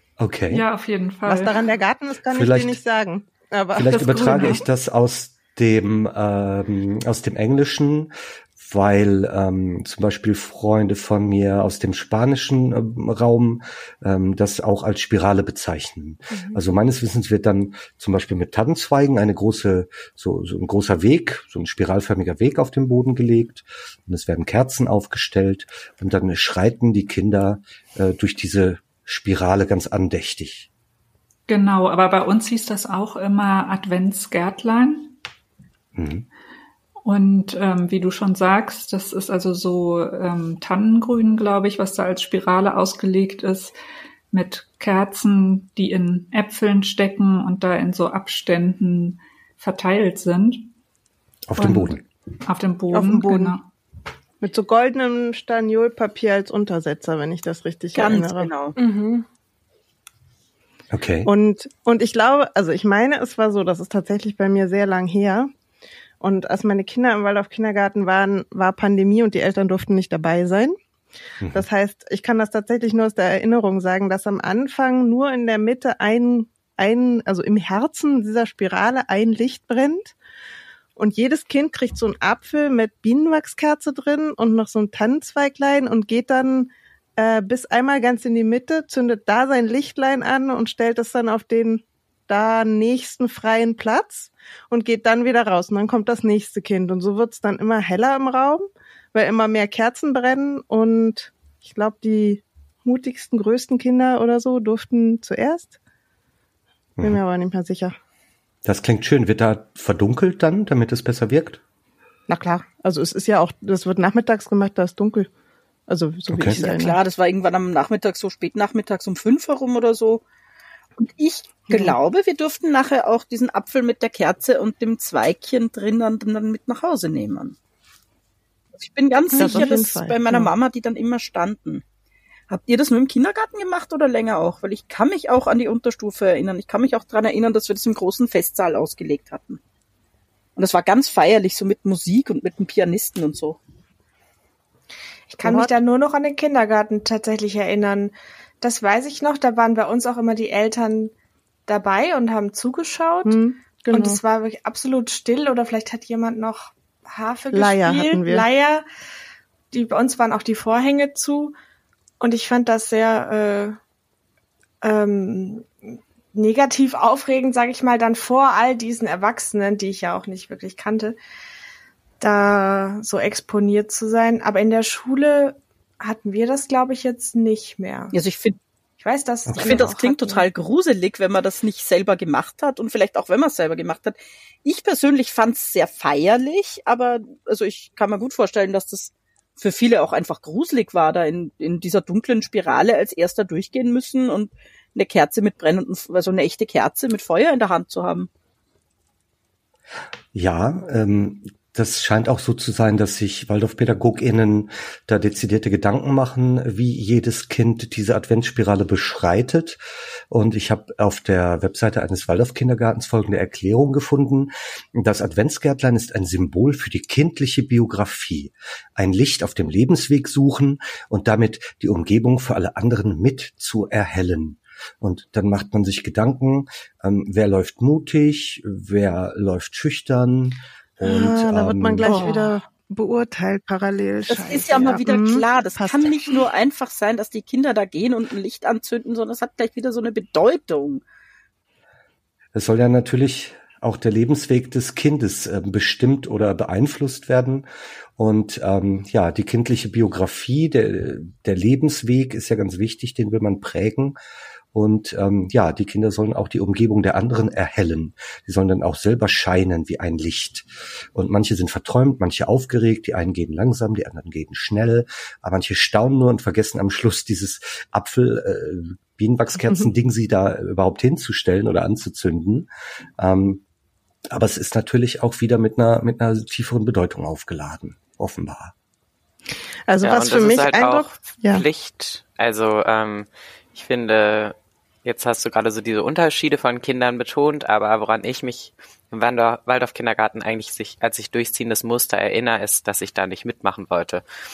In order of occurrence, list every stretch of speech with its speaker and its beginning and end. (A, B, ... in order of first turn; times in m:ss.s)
0:00.2-0:00.6 A
0:00.5-0:01.7 B
0:01.3-0:04.6 C
0:02.3-0:02.8 A
0:03.8-0:30.7 A
0:03.9-0:04.6 B
0:16.3-0:16.6 D
0:31.5-0:35.2 B
0:36.0-0:36.3 A
0:37.0-0:43.8 B
0:44.3-0:50.7 B
0:51.5-0:52.0 A
0:51.6-0:53.7 B
0:52.9-0:53.6 C
0:54.4-0:58.5 C
0:58.0-0:58.8 E
0:58.8-0:59.3 D
1:00.9-1:01.3 A
1:01.2-1:05.5 C
1:06.2-1:10.8 C
1:11.4-1:11.7 A
1:11.5-1:20.2 C
1:21.0-1:45.8 C
1:47.0-1:48.0 C
1:48.6-1:51.6 A
1:52.3-1:55.3 C
1:55.9-1:57.0 C
1:56.3-1:56.6 A
1:56.4-2:00.2 E
2:01.0-2:07.6 E
2:01.7-2:02.0 C
2:08.8-2:11.8 E
2:09.3-2:10.5 C
2:12.5-2:19.6 E
2:20.6-2:23.6 E
2:25.3-2:31.1 D
2:25.4-2:25.7 C
2:31.7-2:38.8 D
2:33.2-2:34.2 C
2:37.5-2:38.5 C
2:39.7-2:41.6 D
2:42.2-2:43.8 D
2:44.8-2:45.7 D
2:46.3-2:51.2 D
2:52.2-2:58.2 D
2:58.1-2:58.6 E
2:59.0-3:00.5 D
2:59.5-2:59.9 A
2:59.6-3:18.3 E
3:20.3-3:52.2 A
3:51.0-3:56.4 C
3:52.0-3:52.6 E
3:54.3-4:01.0 E
4:02.5-4:07.7 A
4:08.2-4:14.2 A
4:14.7-4:33.6 A
4:34.3-4:38.7 A
4:39.9-4:41.6 C
4:40.0-4:54.2 F